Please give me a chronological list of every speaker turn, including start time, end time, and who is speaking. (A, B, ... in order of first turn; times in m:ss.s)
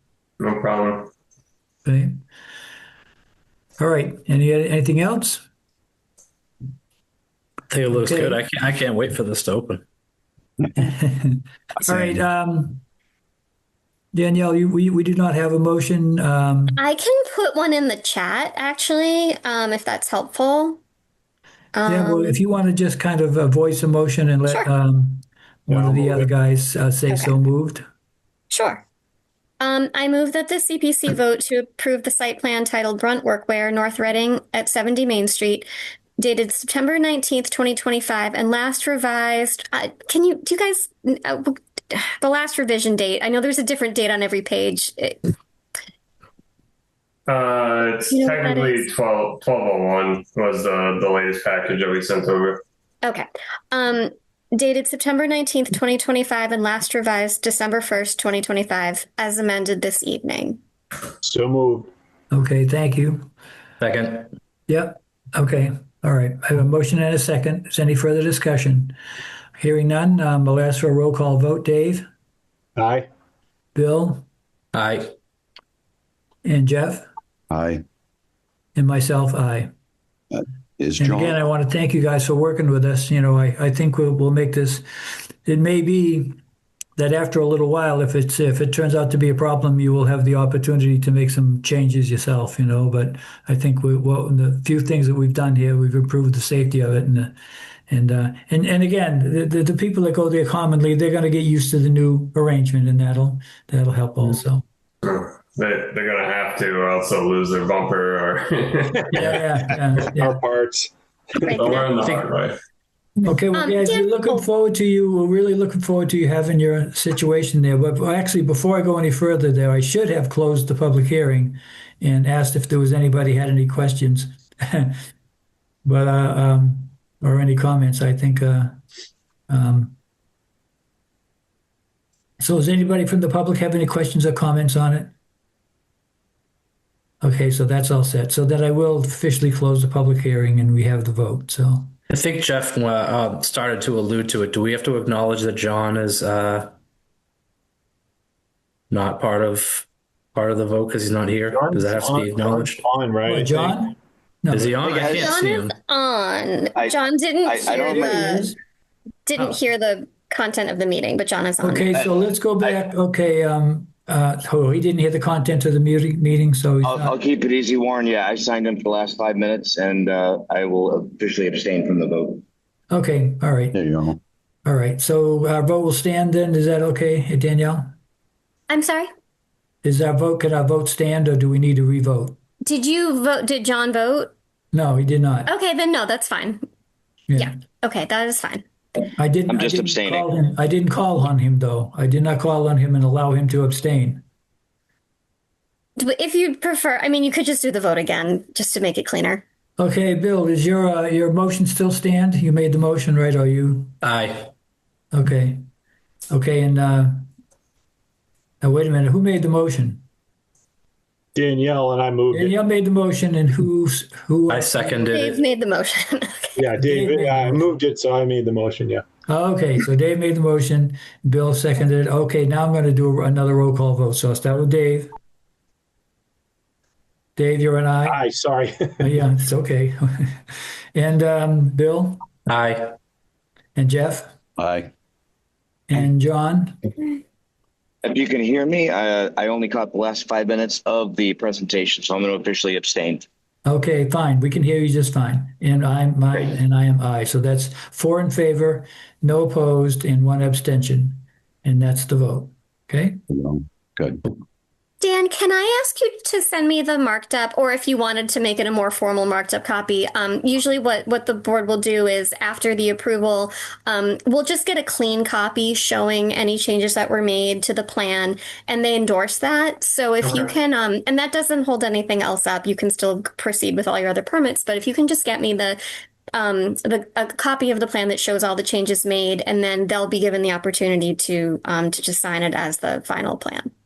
0:00.4-0:01.1 A
0:01.8-0:02.2 B
0:03.8-0:05.5 B
0:07.7-0:09.8 C
0:07.9-0:08.4 B
0:10.8-0:12.8 B
0:14.1-0:16.8 B
0:16.8-0:20.8 D
0:21.7-0:22.4 D
0:21.9-0:27.8 B
0:25.7-0:26.2 E
0:28.5-0:28.8 D
0:29.6-0:35.7 D
0:36.2-0:45.3 D
0:47.3-0:52.6 A
0:48.1-0:48.9 D
0:53.0-1:00.6 D
1:01.2-1:01.9 E
1:02.3-1:03.3 B
1:03.8-1:04.3 C
1:04.7-1:09.0 B
1:09.6-1:12.0 B
1:12.8-1:13.1 E
1:13.8-1:14.3 B
1:14.7-1:15.1 C
1:16.4-1:17.1 B
1:17.5-1:17.8 F
1:18.8-1:19.7 B
1:20.3-1:21.3 F
1:21.0-1:24.8 B
1:25.4-1:26.3 B
1:27.0-1:37.4 B
1:37.9-1:44.6 B
1:45.0-1:49.2 A
1:49.1-1:50.4 B
1:50.2-1:50.9 E
1:51.4-1:51.9 D
1:51.4-1:52.6 A
1:52.0-1:52.3 C
1:53.2-2:05.0 B
1:53.5-1:54.4 D
2:05.8-2:08.8 B
2:09.5-2:10.0 B
2:12.4-2:15.1 B
2:17.2-2:21.9 B
2:22.1-2:26.7 C
2:28.9-2:32.8 C
2:31.5-2:33.8 E
2:33.3-2:34.7 B
2:34.5-2:35.7 C
2:34.8-2:35.3 G
2:35.2-2:38.5 D
2:37.5-2:38.4 G
2:37.7-2:38.5 B
2:39.2-2:41.9 D
2:41.6-2:47.1 B
2:46.8-2:52.4 G
2:52.9-2:53.8 B
2:53.7-2:54.2 F
2:54.6-2:57.9 B
2:58.7-2:59.1 D
2:59.8-3:02.4 B
3:02.6-3:04.3 D
3:04.7-3:05.5 B
3:05.5-3:06.6 D
3:07.4-3:08.6 D
3:09.2-3:14.2 B
3:09.5-3:10.3 G
3:16.0-3:19.4 D
3:19.8-3:23.9 B
3:24.0-3:24.5 C
3:25.1-3:25.6 B
3:26.3-3:27.3 B
3:28.6-3:30.0 B
3:31.3-3:32.6 E
3:32.3-3:35.0 B
3:34.5-3:35.4 C
3:35.1-3:36.7 D
3:36.6-3:39.0 E
3:36.8-3:37.7 B
3:39.3-3:45.1 B
3:47.4-3:48.2 B
3:48.0-3:49.1 E
3:49.0-3:50.4 B
3:50.9-3:52.2 B
3:52.5-3:52.9 C
3:53.8-3:54.3 B
3:54.6-3:54.9 F
3:55.9-3:56.8 B
3:58.0-4:03.2 G
4:03.7-4:13.2 B
4:06.3-4:06.6 G
4:13.3-4:14.2 F
4:15.0-4:35.8 D
4:30.2-4:30.5 A
4:36.3-4:43.7 D